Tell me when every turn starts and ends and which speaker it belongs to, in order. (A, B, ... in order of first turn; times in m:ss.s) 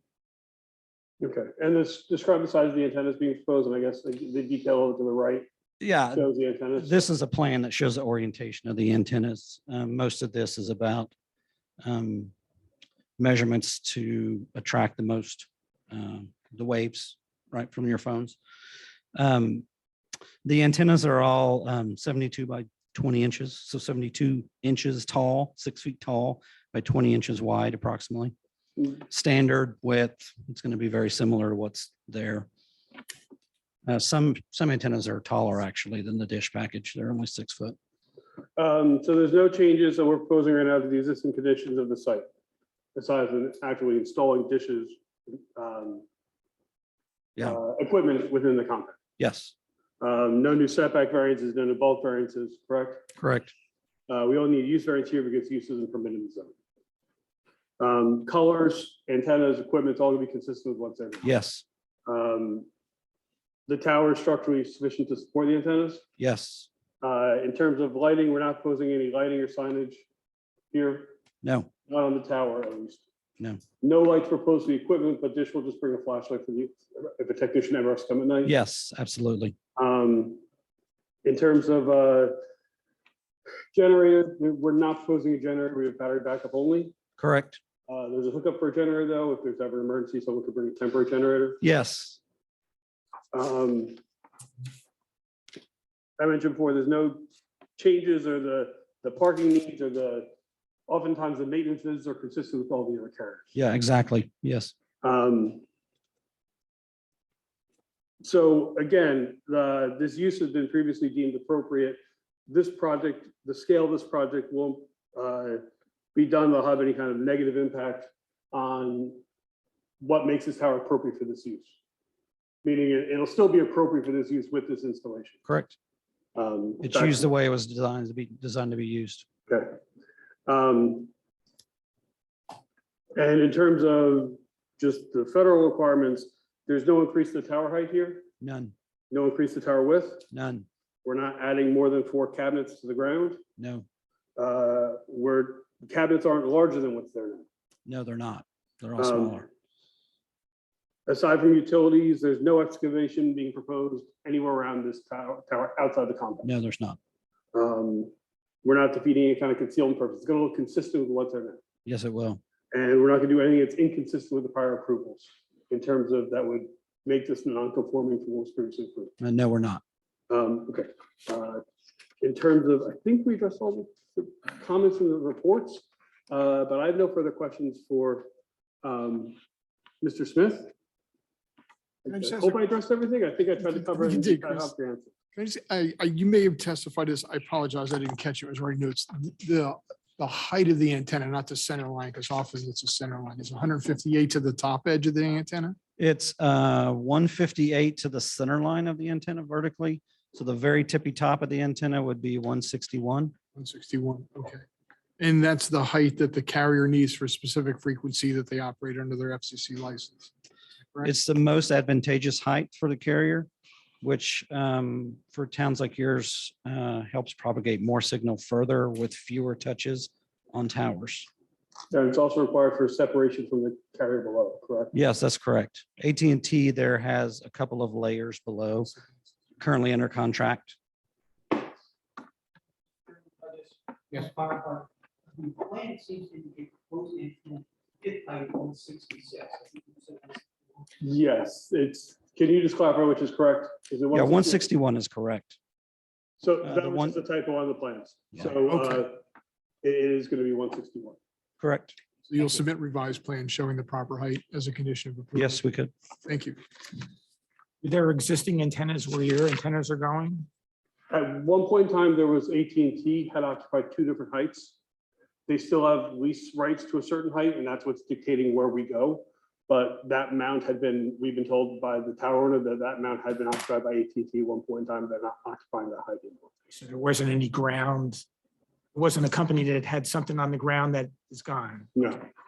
0:01.2-0:05.5 A
0:05.8-0:11.1 B
0:06.1-0:07.0 A
0:11.8-0:12.3 B
0:13.2-0:18.4 B
0:19.2-0:19.6 B
0:20.4-0:28.3 B
0:29.0-0:32.5 B
0:33.9-0:37.8 B
0:38.6-0:42.2 A
0:43.0-0:46.0 A
0:47.4-0:49.0 A
0:49.2-0:49.5 B
0:50.0-0:53.0 A
0:53.2-0:53.5 B
0:54.1-0:56.5 A
0:57.8-1:01.3 A
1:01.2-1:01.6 B
1:02.1-1:02.7 A
1:03.7-1:06.0 A
1:06.2-1:06.7 B
1:07.0-1:10.0 A
1:10.7-1:11.1 A
1:11.4-1:11.7 B
1:11.9-1:13.0 A
1:13.8-1:18.5 A
1:18.4-1:19.6 B
1:19.8-1:20.4 A
1:21.2-1:22.4 A
1:23.7-1:27.0 A
1:27.2-1:27.6 B
1:27.9-1:31.6 A
1:31.6-1:32.2 B
1:33.3-1:34.0 A
1:36.2-1:37.2 A
1:37.8-1:40.3 A
1:40.9-1:43.5 A
1:43.6-1:44.7 B
1:45.0-1:45.6 A
1:48.2-1:55.6 A
1:56.2-1:59.2 A
2:00.0-2:01.7 A
2:02.6-2:05.4 A
2:05.5-2:05.8 B
2:06.4-2:07.3 A
2:06.8-2:09.2 B
2:09.5-2:09.8 A
2:10.5-2:11.1 A
2:13.2-2:18.3 A
2:18.4-2:18.7 B
2:19.1-2:20.3 A
2:20.3-2:20.7 B
2:21.0-2:23.4 A
2:23.6-2:23.8 B
2:24.4-2:27.5 A
2:27.9-2:29.5 B
2:29.0-2:29.4 A
2:31.1-2:36.5 A
2:36.4-2:37.0 B
2:37.5-2:38.1 A
2:38.6-2:41.6 A
2:41.9-2:42.4 B
2:42.7-2:49.1 A
2:49.2-2:49.8 B
2:50.3-2:51.6 A
2:52.2-2:58.3 A
2:58.8-2:59.4 A
3:00.0-3:00.7 A
3:02.0-3:05.1 A
3:02.1-3:02.6 C
3:03.6-3:04.7 C
3:05.3-3:15.8 C
3:16.0-3:23.3 B
3:23.6-3:24.6 C
3:25.2-3:30.3 C
3:31.0-3:33.5 B
3:34.0-3:41.3 B
3:41.9-3:44.9 A
3:44.9-3:48.9 B
3:49.6-3:50.8 B
3:53.1-4:00.4 D
4:01.0-4:04.6 A
4:04.1-4:05.6 B
4:06.4-4:09.2 A
4:06.6-4:07.2 B
4:09.8-4:11.2 A
4:11.6-4:12.0 B
4:12.3-4:15.6 C
4:15.4-4:15.9 B
4:16.2-4:16.6 C
4:17.8-4:20.5 E
4:21.1-4:24.8 A
4:25.5-4:36.5 A
4:36.8-4:38.2 E
4:39.0-4:41.9 E
4:42.0-4:42.3 A